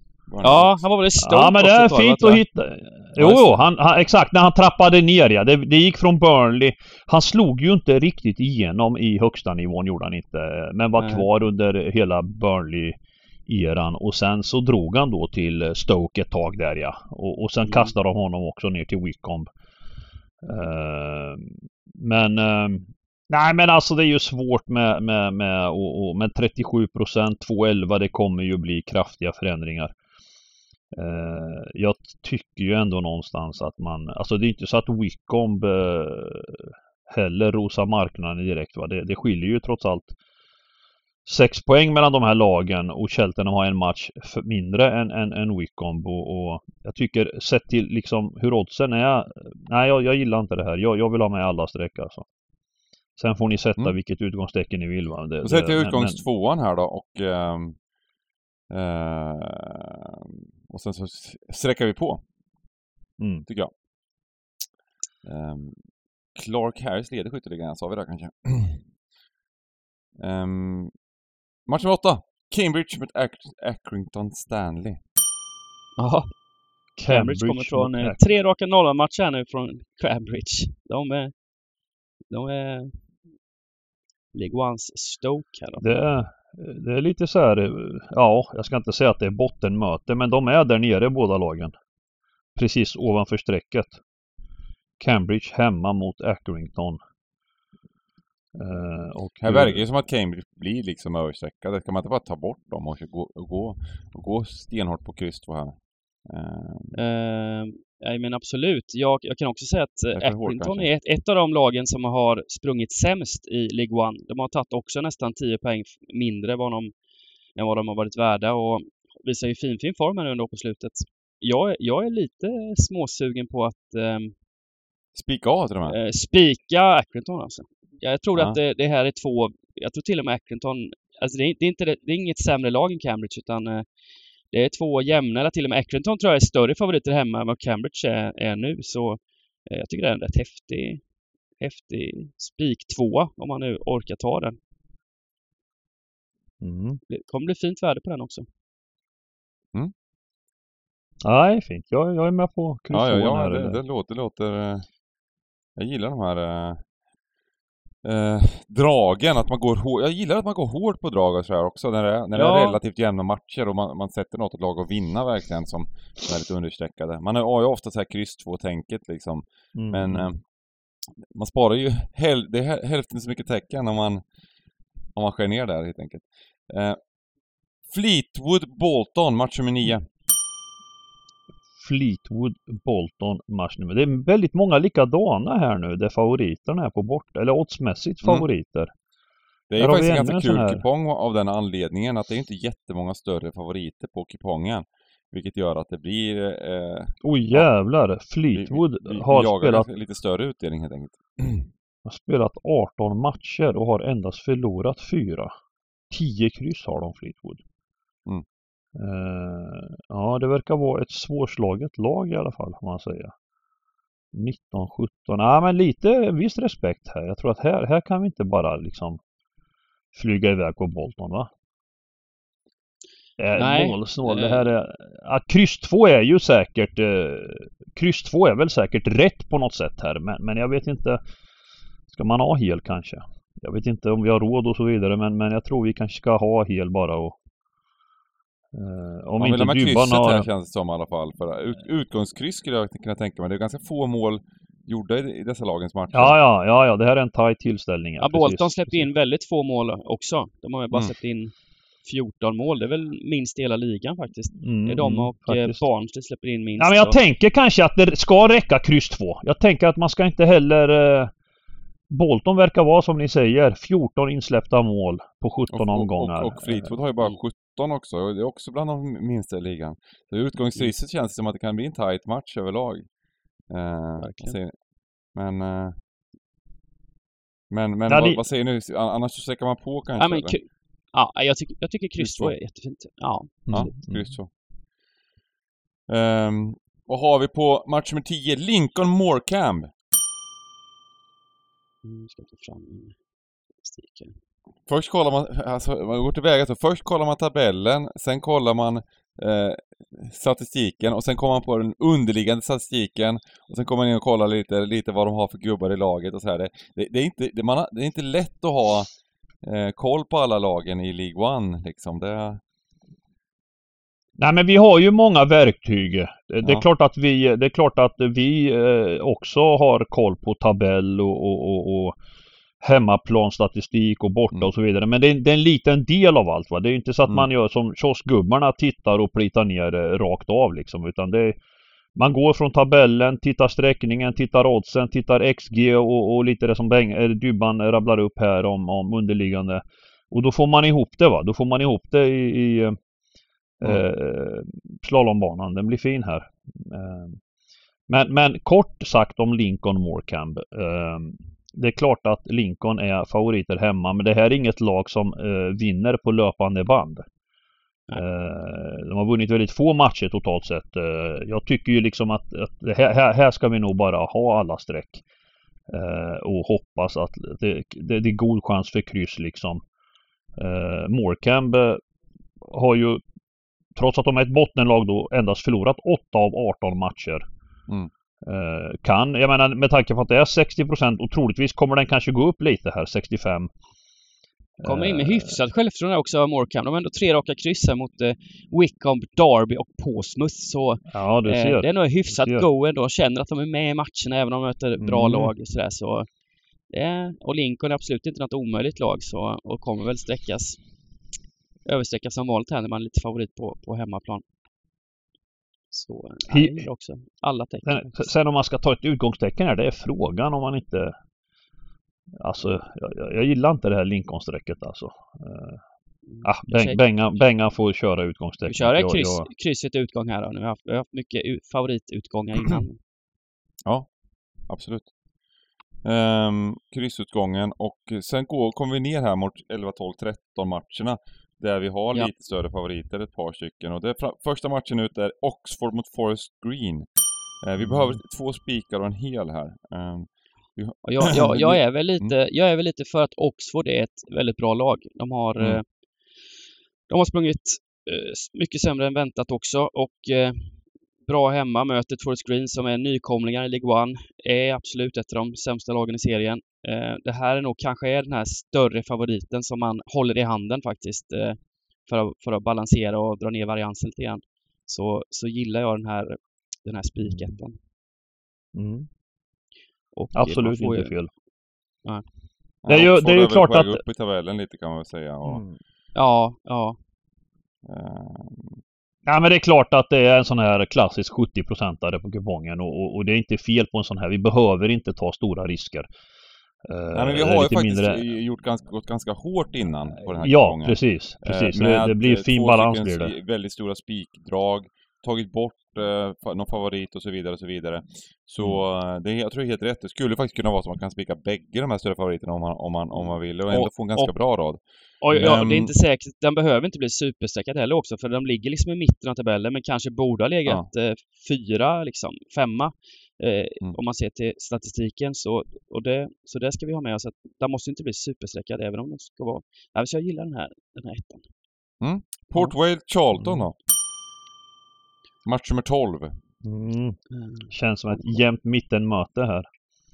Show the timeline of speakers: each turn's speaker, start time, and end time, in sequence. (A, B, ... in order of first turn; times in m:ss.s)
0:00.3-0:00.8 A
0:00.4-0:02.4 B
0:01.2-0:19.5 C
0:03.2-0:03.5 A
0:11.0-0:11.3 B
0:17.6-0:17.9 B
0:20.4-0:29.9 C
0:30.9-0:40.2 C
0:41.2-0:52.2 C
0:53.2-0:56.2 C
0:55.4-0:57.8 A
0:58.7-1:02.2 A
1:03.2-1:03.4 C
1:03.5-1:03.7 A
1:05.2-1:05.8 A
1:06.4-1:08.8 A
1:10.2-1:10.9 A
1:11.7-1:15.0 A
1:16.0-1:16.3 B
1:17.0-1:18.2 C
1:17.1-1:21.3 B
1:22.3-1:23.0 B
1:24.3-1:25.9 B
1:25.8-1:31.7 C
1:32.6-1:34.0 C
1:35.0-1:37.0 C
1:38.6-1:39.8 C
1:39.4-1:47.0 A
1:47.0-1:56.9 B
1:50.1-1:50.9 A
1:57.6-2:04.3 B
2:05.2-2:06.0 A
2:05.9-2:13.8 B
2:14.5-2:21.0 B
2:21.6-2:24.6 B
2:26.6-2:27.0 C
2:27.1-2:28.5 B
2:31.2-2:33.8 C
2:32.9-2:34.9 A
2:35.8-2:36.8 A
2:38.0-2:50.4 A
2:42.3-2:42.8 B
2:49.8-2:50.3 C
2:51.3-2:54.2 A
2:55.2-2:57.0 A
2:57.9-3:00.1 A
3:01.8-3:08.9 C
3:09.7-3:17.7 A
3:09.8-3:10.8 C
3:17.2-3:19.9 C
3:18.5-3:21.7 A
3:22.0-3:25.5 C
3:26.1-3:27.6 C
3:29.0-3:33.3 C
3:34.3-3:39.2 C
3:40.1-3:41.5 C
3:43.4-3:51.2 C
3:43.6-3:44.7 B
3:52.1-3:57.4 C
3:58.7-4:00.5 C
3:59.4-4:06.4 A
4:06.1-4:09.1 C
4:08.2-4:11.5 B
4:12.0-4:17.2 B
4:14.6-4:15.8 C
4:16.8-4:21.3 C
4:22.1-4:26.9 C
4:25.7-4:33.1 A
4:33.7-4:34.7 A
4:34.2-4:34.6 B
4:35.3-4:36.0 A
4:37.7-4:40.6 A
4:38.1-4:38.4 C
4:40.2-4:44.0 B
4:42.2-4:42.6 A
4:43.7-4:44.3 C
4:43.7-4:44.5 A
4:46.1-4:49.9 A
4:52.0-4:53.2 B
4:53.8-4:54.4 B
4:54.9-5:09.1 A
5:09.6-5:12.6 A
5:14.4-5:22.2 C
5:22.8-5:31.6 C
5:32.2-5:43.0 C
5:43.8-5:47.4 C
5:48.1-5:57.2 C
5:58.2-6:05.2 C
6:05.9-6:09.8 C
6:10.6-6:12.0 C
6:12.6-6:13.2 C
6:14.0-6:17.4 C
6:18.4-6:23.7 C
6:24.8-6:25.5 C
6:24.8-6:36.3 B
6:31.1-6:32.7 C
6:35.0-6:35.5 C
6:36.9-6:40.8 B
6:41.9-6:44.4 B
6:45.9-6:48.3 B
6:46.5-6:46.9 C
6:47.8-6:51.2 C
6:52.4-6:55.8 C
6:56.3-6:57.0 B
6:56.4-6:59.5 C
6:58.7-7:03.0 B
7:04.7-7:05.1 A
7:06.0-7:17.1 A
7:17.6-7:22.3 A
7:17.8-7:18.2 C
7:21.0-7:25.8 B
7:27.1-7:30.7 B
7:31.3-7:47.8 B
7:47.2-7:47.5 C
7:48.8-7:49.1 C
7:50.2-7:51.1 B
7:50.4-7:51.3 C
7:52.8-7:55.6 A
7:52.9-7:54.0 C
7:55.4-7:55.8 C
7:56.2-7:57.0 B
7:57.8-7:58.8 A
7:59.3-8:06.1 C
8:06.8-8:08.2 C
8:07.1-8:24.8 A
8:10.3-8:13.3 C
8:23.7-8:24.3 B
8:25.2-8:41.4 B
8:25.3-8:25.9 A
8:42.0-8:43.8 A
8:43.4-8:43.7 C
8:45.4-8:46.4 A
8:46.6-8:47.2 C
8:47.3-8:48.4 B
8:47.7-8:49.7 C